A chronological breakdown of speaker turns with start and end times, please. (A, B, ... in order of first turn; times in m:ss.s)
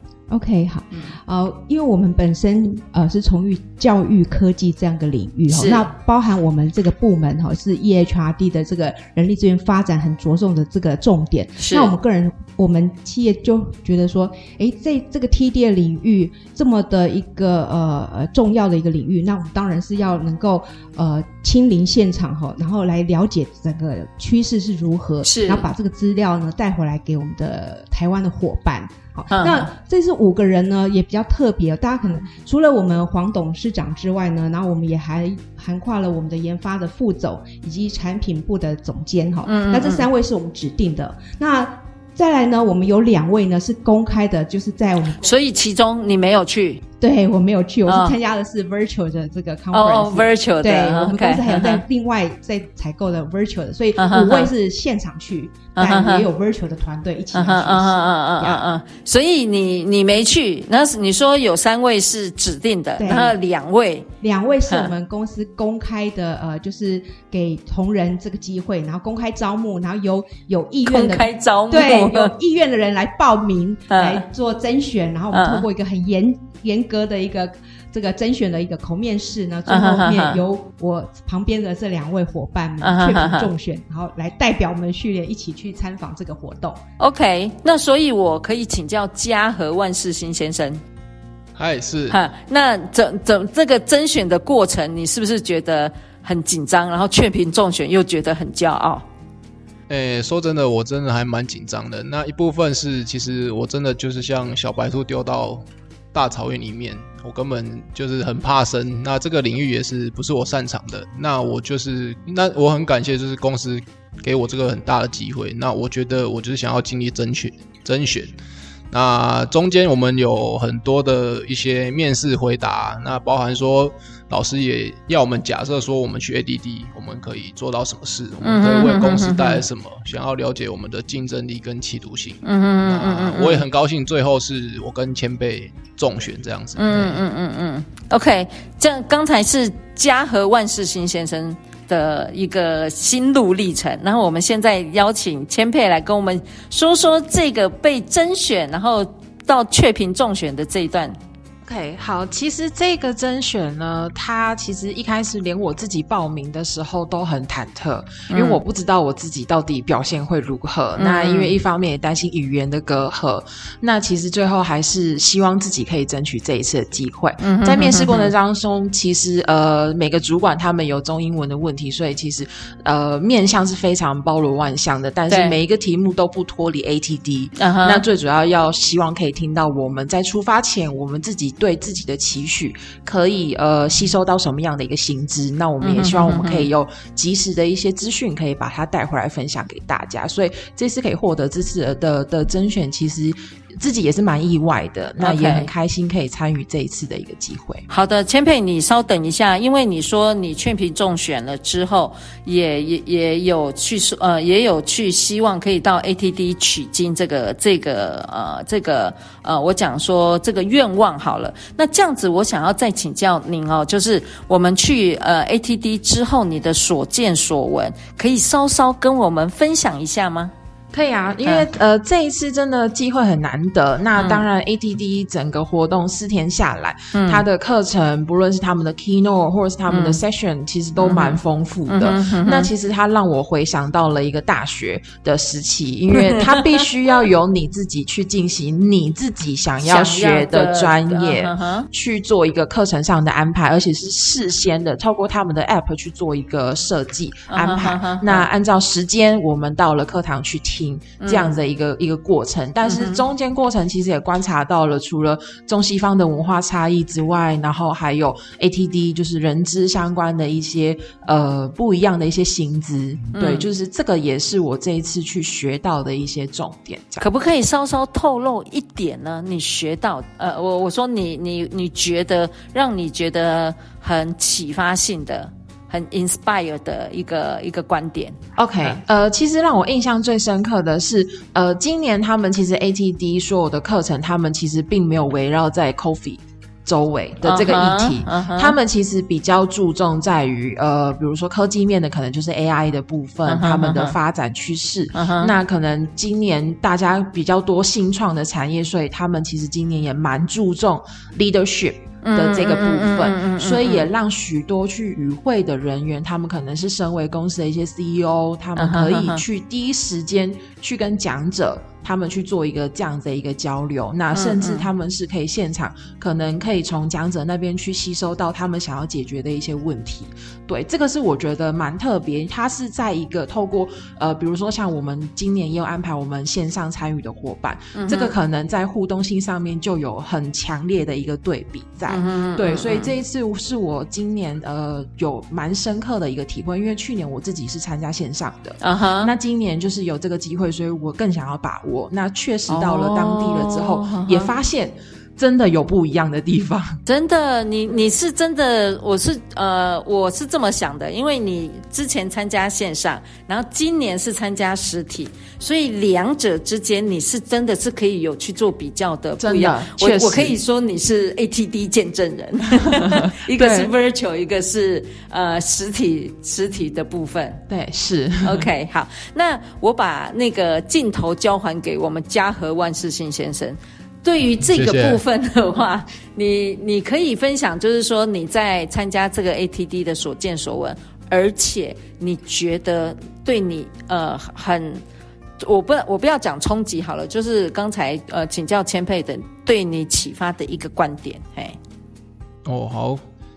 0:00.3-0:45.2 A
0:05.5-0:05.9 B
0:11.6-0:11.9 B
0:25.2-0:25.7 B
0:29.3-0:29.7 B
0:39.4-0:40.1 B
0:45.2-0:46.8 B
0:47.0-0:58.6 A
0:47.9-0:48.2 B
0:49.7-0:51.8 B
0:54.0-0:54.5 B
0:55.8-0:56.3 B
0:57.3-1:04.1 B
1:03.0-1:03.4 A
1:04.2-1:26.8 A
1:10.9-1:12.3 B
1:13.9-1:14.2 B
1:15.3-1:15.7 B
1:19.7-1:20.4 B
1:22.8-1:23.5 B
1:27.0-1:30.8 B
1:31.6-1:32.2 C
1:32.1-1:39.0 B
1:39.9-1:58.3 C
1:58.9-2:17.2 C
2:08.4-2:09.6 B
2:12.4-2:13.6 B
2:16.8-2:31.2 B
2:31.6-3:17.8 D
2:38.3-2:38.6 B
2:41.0-2:41.6 B
2:47.4-2:48.3 B
2:55.3-2:55.6 B
2:57.6-2:58.0 B
3:05.8-3:06.7 B
3:15.2-3:15.7 B
3:17.9-3:40.5 B
3:40.9-4:27.2 D
3:41.4-3:41.7 B
3:44.2-3:44.4 B
3:47.1-3:47.4 B
3:49.9-3:50.2 B
3:51.0-3:52.7 B
3:56.3-3:56.6 B
3:59.8-4:01.9 B
4:07.5-4:08.5 B
4:11.2-4:11.6 B
4:12.9-4:13.2 B
4:23.3-4:23.7 B
4:27.2-4:38.4 B
4:38.6-5:47.0 D
4:47.4-4:48.8 B
4:53.5-4:54.2 B
4:55.2-4:55.6 B
5:02.2-5:04.1 B
5:08.8-5:09.4 B
5:14.3-5:14.9 B
5:27.9-5:28.4 B
5:32.1-5:33.1 B
5:38.8-5:39.3 B
5:42.7-5:44.5 B
5:47.1-6:07.6 B
5:59.4-6:00.6 D
6:03.5-6:03.9 D
6:07.7-6:08.6 D
6:08.4-6:25.0 B
6:14.7-6:15.2 C
6:25.6-6:31.8 B
6:32.6-6:33.2 C